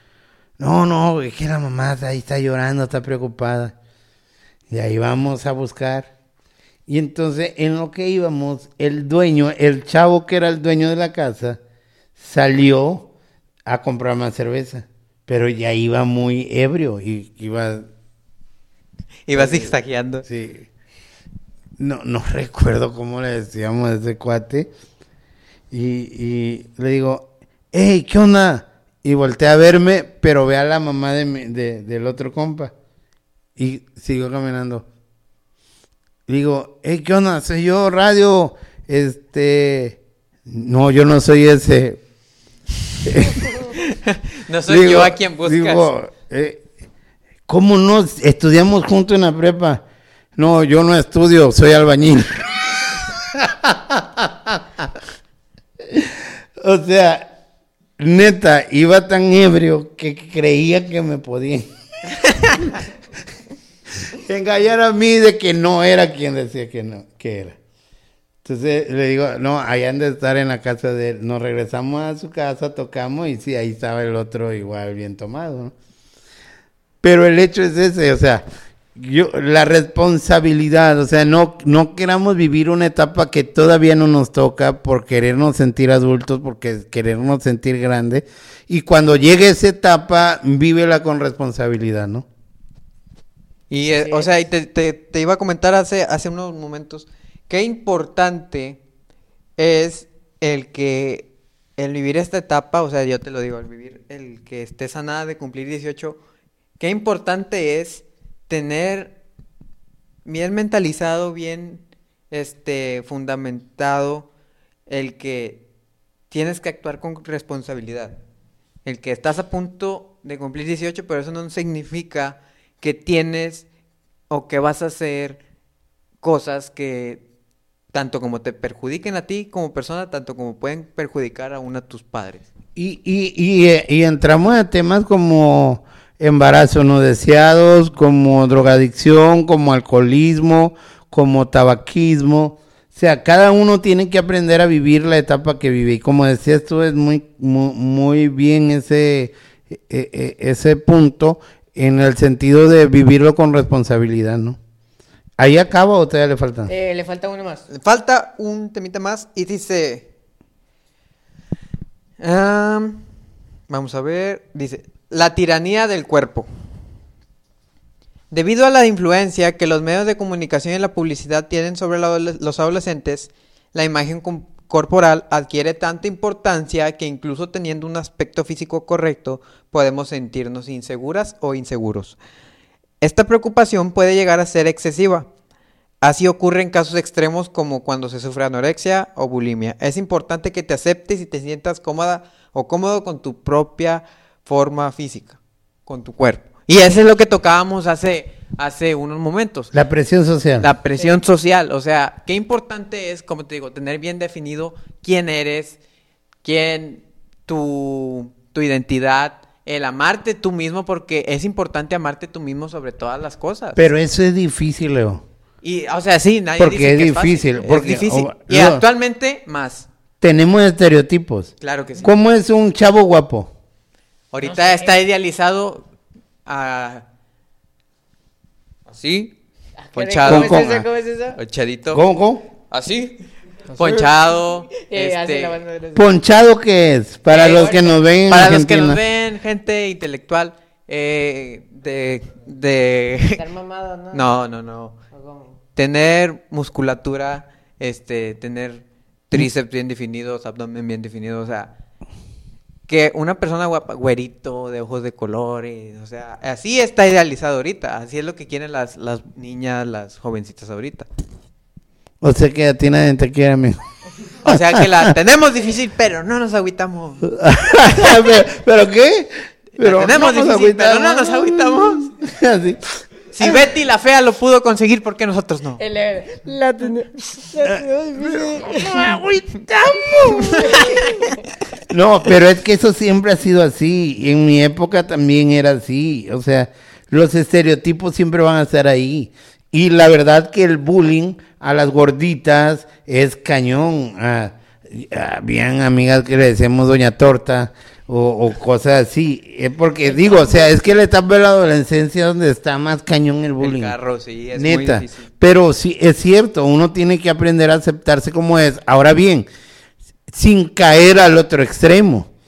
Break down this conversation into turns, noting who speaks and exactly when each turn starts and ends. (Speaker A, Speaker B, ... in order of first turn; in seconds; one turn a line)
Speaker A: 0.6-3.8
Speaker A: 4.7-6.1
Speaker A: 6.9-11.6
Speaker A: 12.2-13.1
Speaker A: 13.7-17.9
Speaker B: 19.3-20.2
Speaker A: 19.3-20.7
Speaker A: 21.8-24.7
Speaker A: 25.7-32.7
Speaker A: 33.6-34.9
Speaker A: 36.3-42.0
Speaker A: 43.1-43.5
Speaker B: 43.7-45.9
Speaker A: 44.7-46.6
Speaker A: 47.5-49.8
Speaker A: 50.4-52.5
Speaker A: 53.1-54.9
Speaker A: 55.9-57.3
Speaker A: 58.0-61.7
Speaker A: 64.1-67.6
Speaker A: 68.4-75.7
Speaker A: 77.0-78.4
Speaker A: 79.0-92.3
Speaker B: 93.7-98.8
Speaker C: 94.0-94.3
Speaker B: 99.6-106.2
Speaker B: 106.8-109.1
Speaker B: 110.2-114.3
Speaker B: 114.9-115.6
Speaker B: 116.3-118.2
Speaker B: 118.8-123.7
Speaker B: 124.3-125.4
Speaker B: 126.2-127.2
Speaker B: 127.9-132.5
Speaker A: 132.8-154.6
Speaker A: 155.4-156.7
Speaker C: 156.7-157.7
Speaker B: 157.7-160.1
Speaker B: 162.2-163.1
Speaker B: 163.7-166.5
Speaker B: 168.3-182.2
Speaker B: 183.0-185.3
Speaker B: 186.0-199.7
Speaker A: 199.7-200.7
Speaker B: 200.6-205.8
Speaker C: 201.0-201.2
Speaker B: 206.4-213.8
Speaker A: 213.8-215.2
Speaker B: 215.6-219.9
Speaker A: 216.6-218.8
Speaker A: 220.2-221.5
Speaker B: 221.6-222.1
Speaker A: 222.0-223.5
Speaker B: 224.3-225.9
Speaker C: 224.4-225.0
Speaker B: 226.5-227.0
Speaker B: 228.9-229.3
Speaker C: 229.8-231.4
Speaker B: 229.9-232.0
Speaker A: 230.3-230.8
Speaker A: 231.9-232.4
Speaker B: 232.7-233.2
Speaker C: 233.8-234.1
Speaker B: 233.8-235.6
Speaker C: 234.7-236.2
Speaker A: 235.9-239.0
Speaker B: 237.3-243.4
Speaker C: 237.3-237.9
Speaker C: 243.4-244.3
Speaker B: 244.1-245.0
Speaker C: 245.1-245.6
Speaker B: 245.8-251.7
Speaker B: 252.9-261.1
Speaker A: 262.2-263.8
Speaker B: 264.4-267.3
Speaker A: 264.5-265.1
Speaker A: 267.3-273.6
Speaker B: 269.8-272.1
Speaker B: 273.3-275.8
Speaker C: 275.8-279.2
Speaker A: 277.6-280.9
Speaker C: 280.5-281.4
Speaker A: 281.9-304.0
Speaker C: 300.1-300.7
Speaker B: 303.6-305.3
Speaker A: 304.6-309.5
Speaker A: 310.3-312.3